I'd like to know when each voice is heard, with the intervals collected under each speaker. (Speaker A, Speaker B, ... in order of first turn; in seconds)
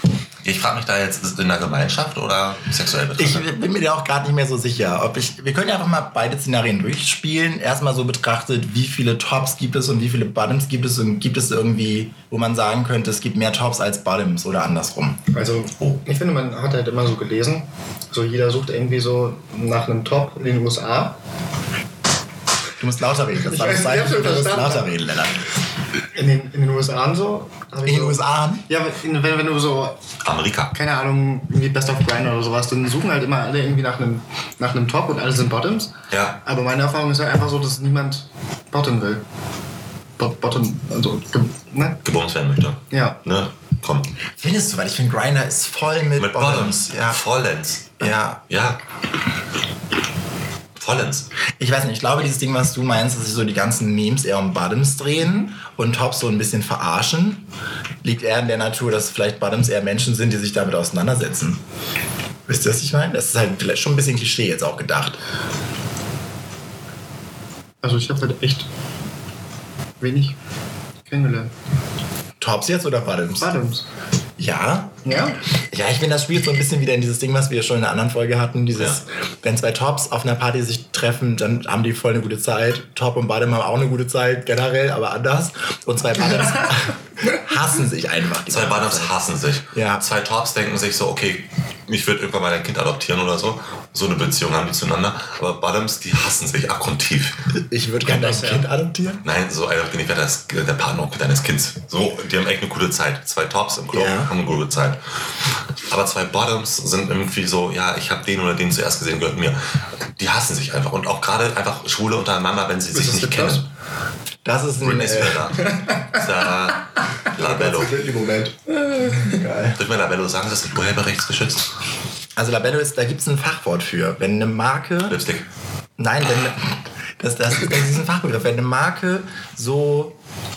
Speaker A: 0.4-3.5, 30.2-30.7, 36.1-36.4, 42.0-44.1, 46.2-48.8, 50.8-51.3, 88.5-97.4, 99.2-105.0, 105.8-109.6, 110.2-113.7, 114.8-118.0, 119.8-121.7, 125.1-125.5
Speaker B: 3.2-15.2, 22.8-25.4, 27.8-28.6, 44.3-47.2, 48.0-48.4, 51.6-57.5, 58.0-61.6, 62.5-65.2, 72.4-73.5, 74.4-75.0, 75.7-89.1, 89.7-90.0, 97.5-99.2, 103.9-104.3, 114.4-115.5, 117.3-119.8, 122.4-125.2, 126.0-130.2
Speaker C: 15.3-21.2, 23.4-24.9, 26.1-30.0, 30.7-39.2, 40.2-42.0, 42.9-43.2, 67.8-68.7, 70.0-70.4, 71.1-71.5, 73.4-73.9, 75.0-75.4, 98.1-98.7, 112.9-113.6, 115.6-116.3, 118.9-119.4